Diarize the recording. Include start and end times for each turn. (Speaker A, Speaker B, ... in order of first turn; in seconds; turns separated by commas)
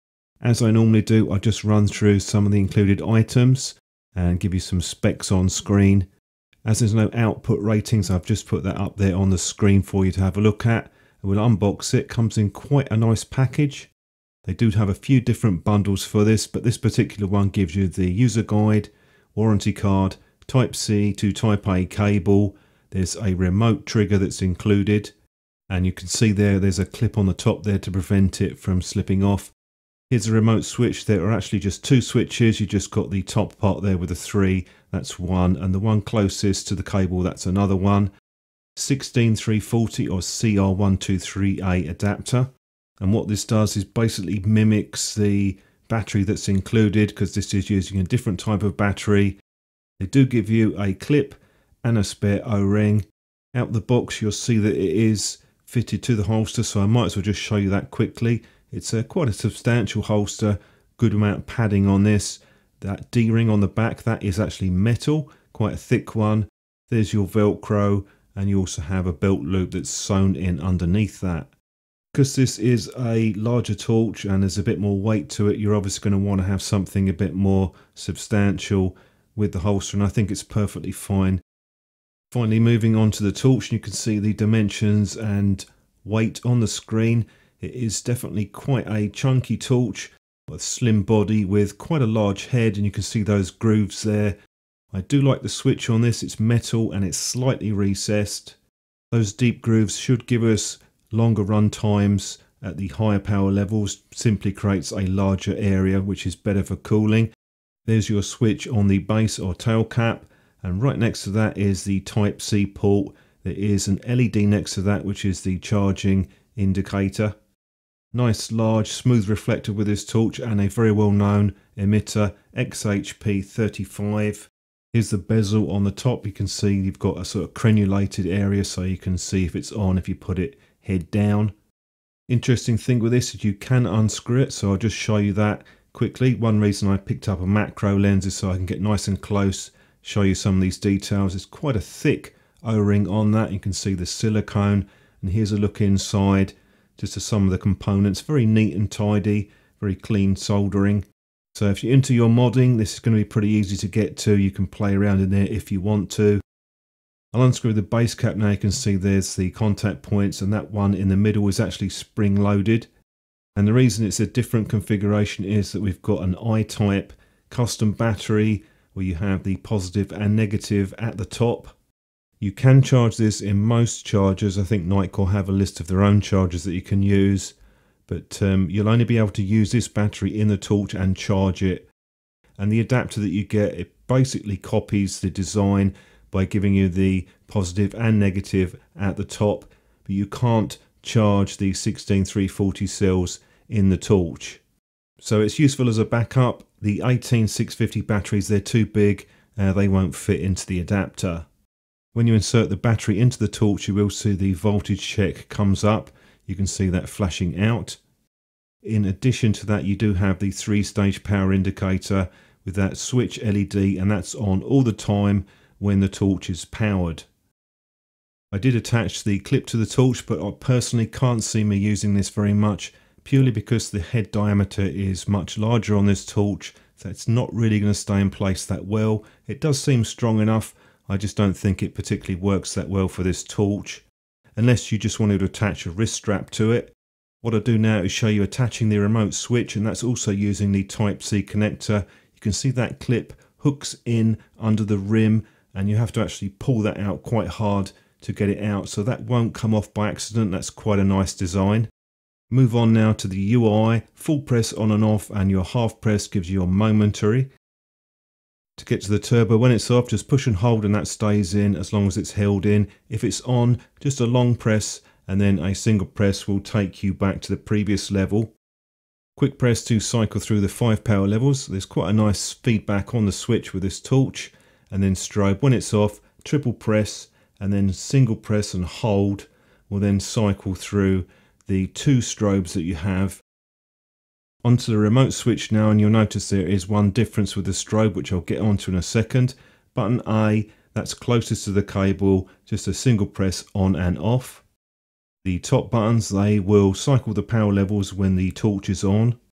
Speaker A: 0.4-6.1, Speaker A: 6.7-13.9, Speaker A: 14.4-25.1, Speaker A: 25.7-29.5, Speaker A: 30.1-38.1, Speaker A: 38.8-49.4, Speaker A: 50.0-71.5, Speaker A: 72.1-81.4, Speaker A: 82.3-94.4, Speaker A: 94.9-98.6, Speaker A: 99.1-107.3, Speaker A: 107.9-117.4, Speaker A: 118.1-131.5, Speaker A: 132.3-156.4, Speaker A: 157.3-162.9, Speaker A: 163.6-171.8, Speaker A: 172.4-177.6, Speaker A: 178.1-181.9, Speaker A: 182.6-194.6, Speaker A: 195.2-201.5, Speaker A: 202.1-208.0, Speaker A: 208.8-217.3, Speaker A: 218.5-234.1, Speaker A: 234.6-251.9, Speaker A: 252.5-257.5, Speaker A: 258.8-268.5, Speaker A: 269.4-283.4, Speaker A: 284.6-294.6, Speaker A: 295.4-299.4